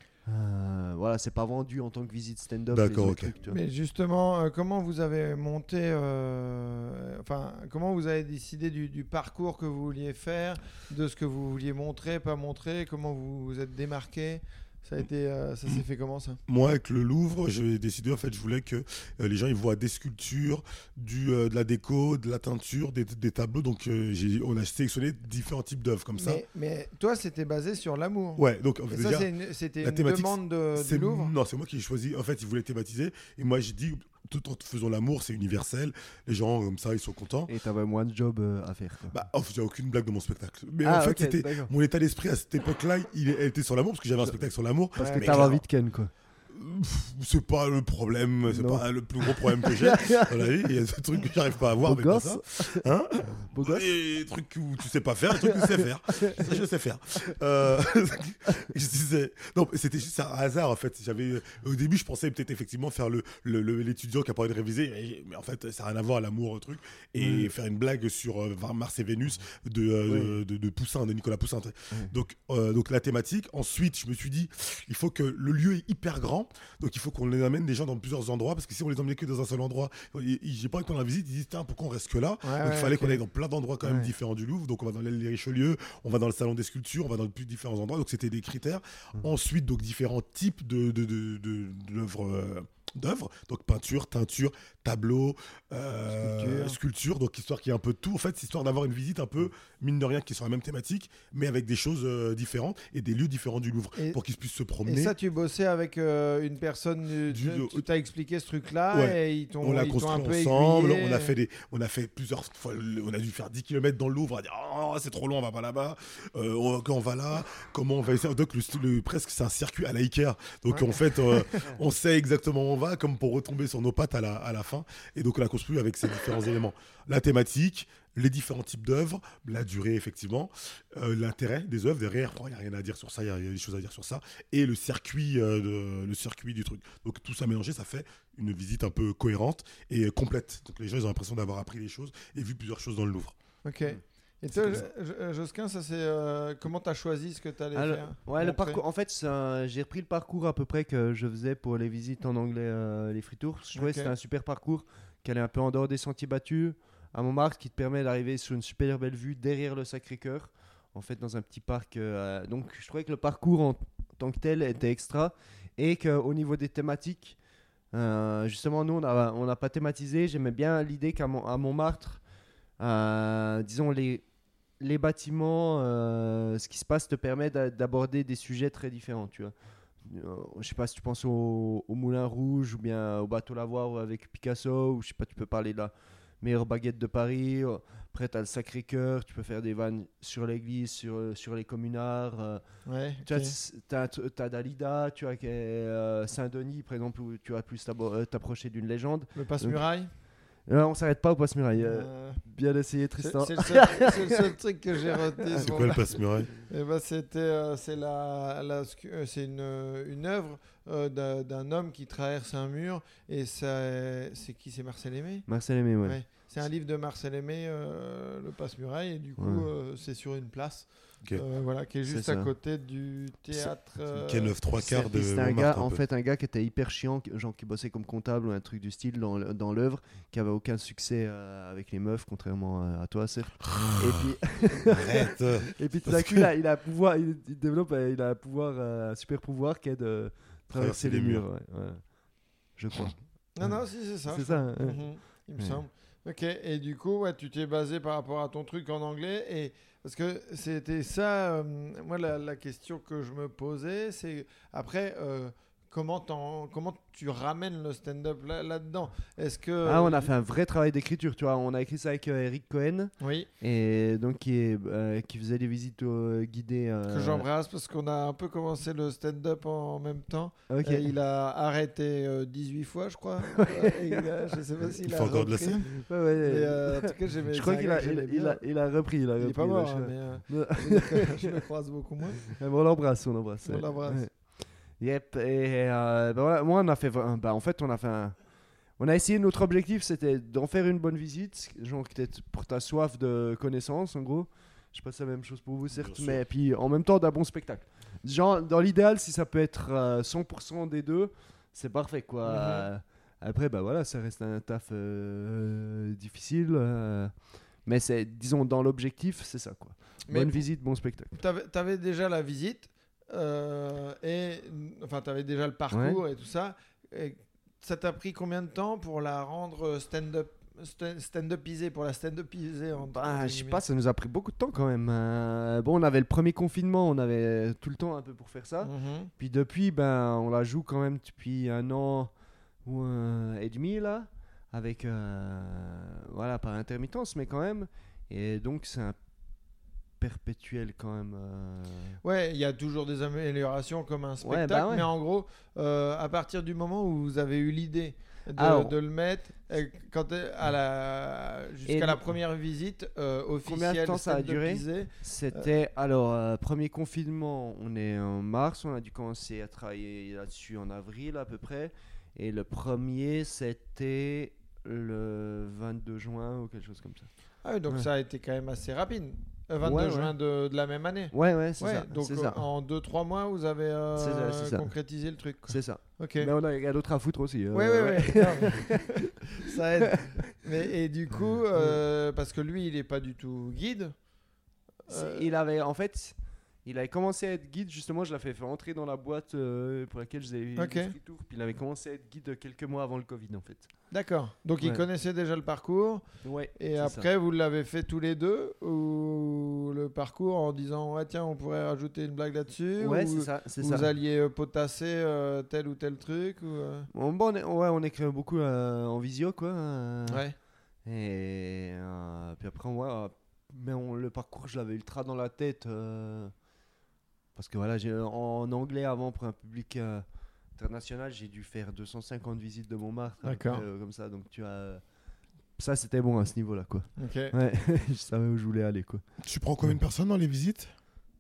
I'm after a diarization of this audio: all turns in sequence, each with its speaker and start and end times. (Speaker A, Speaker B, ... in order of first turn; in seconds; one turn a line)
Speaker A: 0.3-3.6
Speaker B: 2.7-3.3
Speaker C: 3.4-16.4
Speaker B: 16.5-26.4
Speaker C: 26.2-31.3
Speaker B: 28.4-29.3
Speaker B: 29.8-37.5
Speaker A: 37.5-39.1
Speaker B: 39.1-45.6
Speaker A: 40.8-41.7
Speaker A: 45.0-46.1
Speaker C: 45.0-45.5
Speaker B: 46.5-105.1
Speaker A: 48.5-50.5
Speaker A: 51.8-53.9
Speaker A: 55.3-56.5
Speaker A: 67.2-67.5
Speaker A: 70.1-70.4
Speaker C: 82.4-83.2
Speaker A: 83.8-84.1
Speaker C: 96.1-96.8
Speaker C: 104.8-111.3
Speaker B: 107.3-107.8
Speaker B: 108.9-143.4
Speaker C: 120.7-121.7
Speaker C: 143.6-148.8
Speaker B: 144.5-144.9
Speaker A: 147.7-167.4
Speaker C: 153.8-154.1
Speaker A: 167.9-172.2
Speaker A: 172.8-174.2
Speaker A: 174.8-192.6
Speaker C: 192.9-193.6
Speaker A: 193.2-199.8
Speaker C: 199.3-200.1
Speaker A: 200.7-205.7
Speaker C: 201.8-202.4
Speaker C: 203.2-215.5
Speaker B: 205.6-206.5
Speaker A: 215.5-216.2
Speaker C: 216.0-224.6
Speaker A: 219.4-219.7
Speaker A: 222.1-222.5
Speaker B: 224.1-226.0
Speaker A: 224.8-242.0
Speaker B: 233.6-236.5
Speaker B: 240.7-241.4
Speaker A: 242.8-243.8
Speaker C: 243.6-260.3
Speaker A: 244.3-245.1
Speaker A: 259.8-267.5
Speaker C: 263.2-263.5
Speaker C: 267.1-278.6
Speaker A: 270.7-271.1
Speaker A: 273.5-274.5
Speaker B: 275.0-275.9
Speaker A: 275.9-281.5
Speaker C: 279.4-282.6
Speaker A: 282.4-284.4
Speaker C: 283.6-284.2
Speaker A: 285.0-288.4
Speaker A: 289.0-307.3
Speaker B: 295.9-296.4
Speaker C: 302.4-302.9
Speaker A: 307.9-311.3
Speaker C: 310.3-310.7
Speaker C: 311.3-323.8
Speaker A: 315.9-316.2
Speaker A: 323.1-332.3
Speaker C: 328.8-329.3
Speaker A: 332.9-339.2
Speaker A: 340.2-342.2
Speaker C: 342.2-355.7
Speaker A: 344.4-345.1
Speaker A: 348.6-349.0
Speaker A: 351.9-352.2
Speaker A: 353.6-367.3
Speaker C: 367.6-376.5
Speaker A: 369.8-370.3
Speaker A: 371.3-372.6
Speaker A: 374.2-374.9
Speaker A: 375.7-380.6
Speaker C: 377.7-384.2
Speaker C: 385.1-385.5
Speaker A: 385.1-393.9
Speaker C: 390.8-391.1
Speaker C: 394.1-396.2
Speaker A: 394.8-395.1
Speaker A: 396.4-397.3
Speaker C: 396.8-407.1
Speaker A: 403.0-404.1
Speaker A: 407.1-410.4
Speaker C: 410.3-410.6
Speaker A: 411.1-416.5
Speaker A: 417.6-420.2
Speaker A: 420.8-425.0
Speaker C: 423.4-423.9
Speaker A: 425.8-429.2
Speaker C: 427.2-427.5
Speaker B: 429.4-430.9